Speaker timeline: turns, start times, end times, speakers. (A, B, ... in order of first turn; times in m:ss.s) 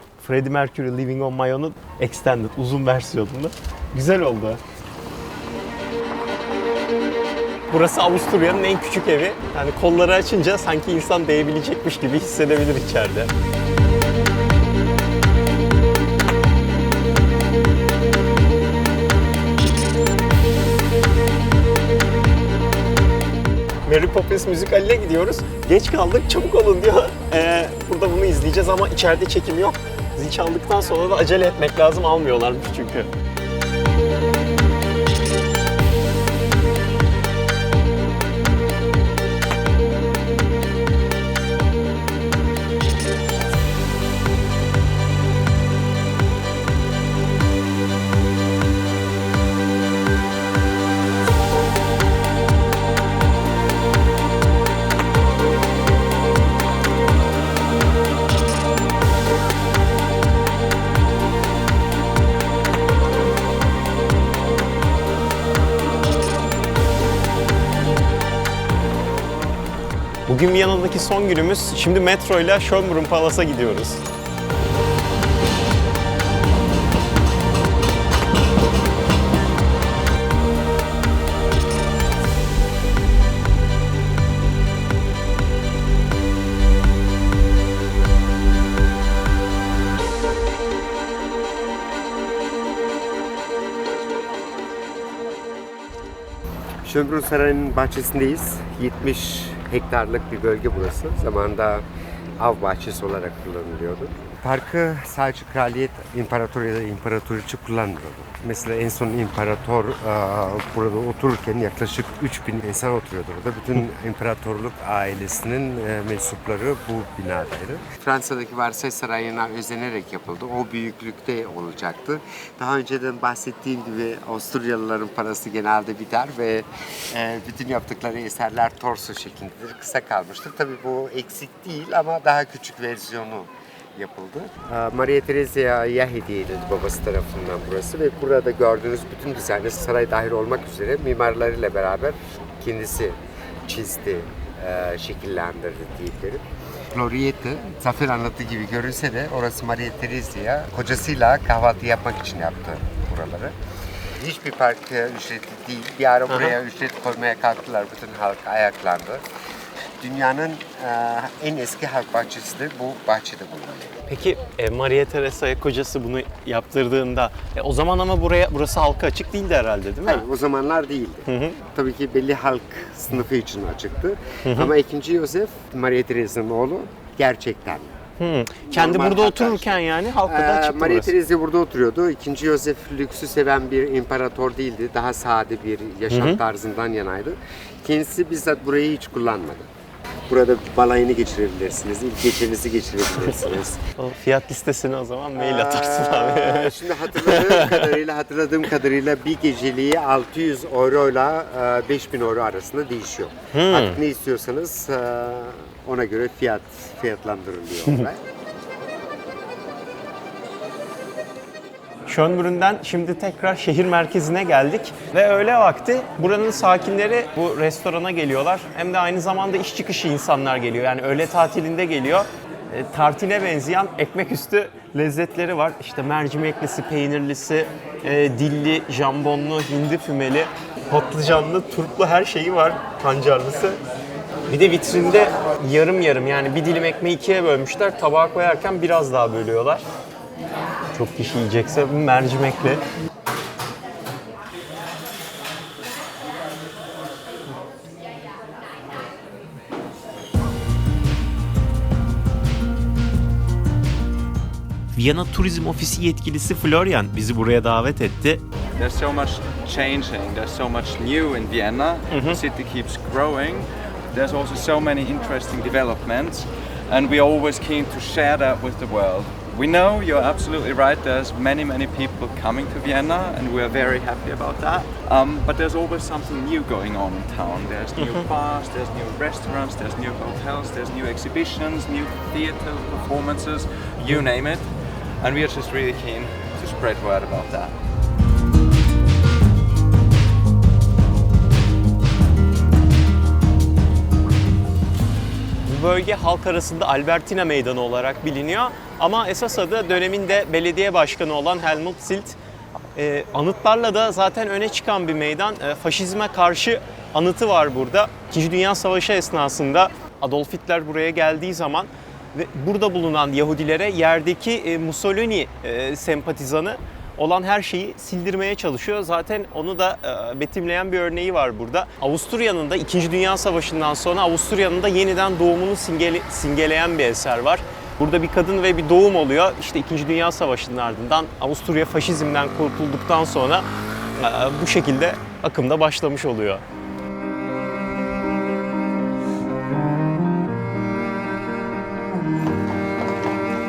0:00.2-0:04.6 A
0:07.7-0:13.3 A
0:23.9-0:33.1 A
1:10.3-1:14.0 A
1:36.8-1:41.8 B
1:42.4-2:33.6 B
2:34.2-2:39.2 B
2:36.3-2:36.6 A
2:40.0-2:44.0 B
2:44.1-2:50.2 A
2:50.1-2:57.9 B
2:51.3-2:51.6 A
2:54.4-2:54.7 A
2:58.2-3:01.1 A
2:58.7-3:09.7 B
3:06.1-3:06.4 A
3:10.3-3:13.8 B
3:13.2-3:18.0 A
3:15.4-3:28.2 B
3:23.5-3:24.0 A
3:32.1-3:53.8 A
3:54.5-3:59.8 A
4:00.9-4:02.8 A
4:14.9-4:18.4 A
4:18.8-4:47.7 C
4:22.1-4:22.4 A
4:38.0-4:38.3 A
4:55.6-5:02.4 A
5:03.0-5:36.6 A